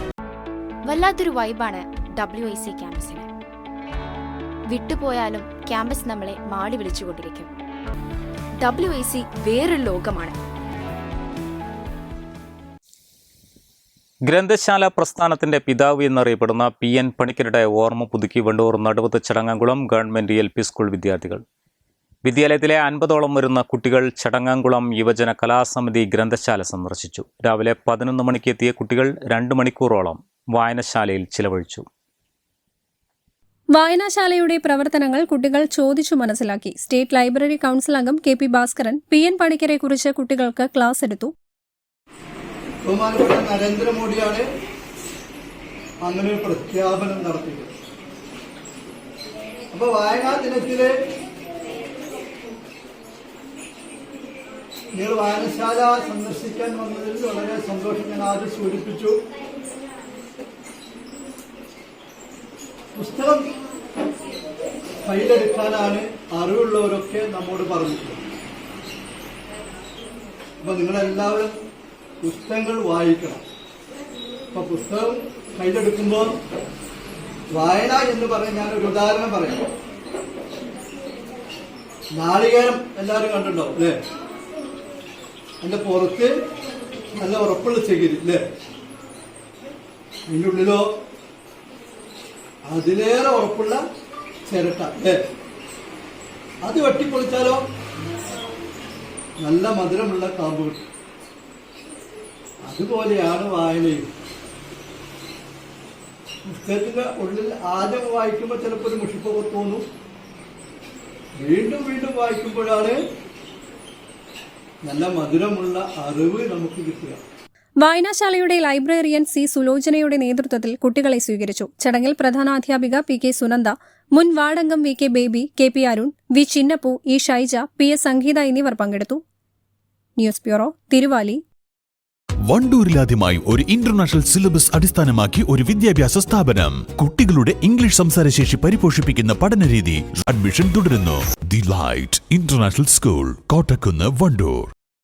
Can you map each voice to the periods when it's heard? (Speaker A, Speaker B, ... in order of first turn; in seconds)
Speaker A: 0.8-3.2, 4.7-7.5, 8.6-10.4
Speaker B: 14.3-21.4, 22.2-31.8
Speaker C: 33.7-41.3, 117.8-129.2, 130.2-131.4
Speaker D: 42.8-44.5, 46.0-47.7, 49.7-50.9, 54.9-59.2, 62.9-63.5, 65.0-68.2, 70.6-71.5, 72.2-73.4, 74.5-76.3, 77.5-79.6, 82.2-84.0, 85.6-86.3, 87.1-88.4, 90.3-90.9, 92.6-93.8, 94.5-95.2, 96.6-97.6, 99.4-100.8, 102.6-104.0, 106.4-109.8, 111.4-113.0, 114.8-117.2
Speaker E: 132.5-144.7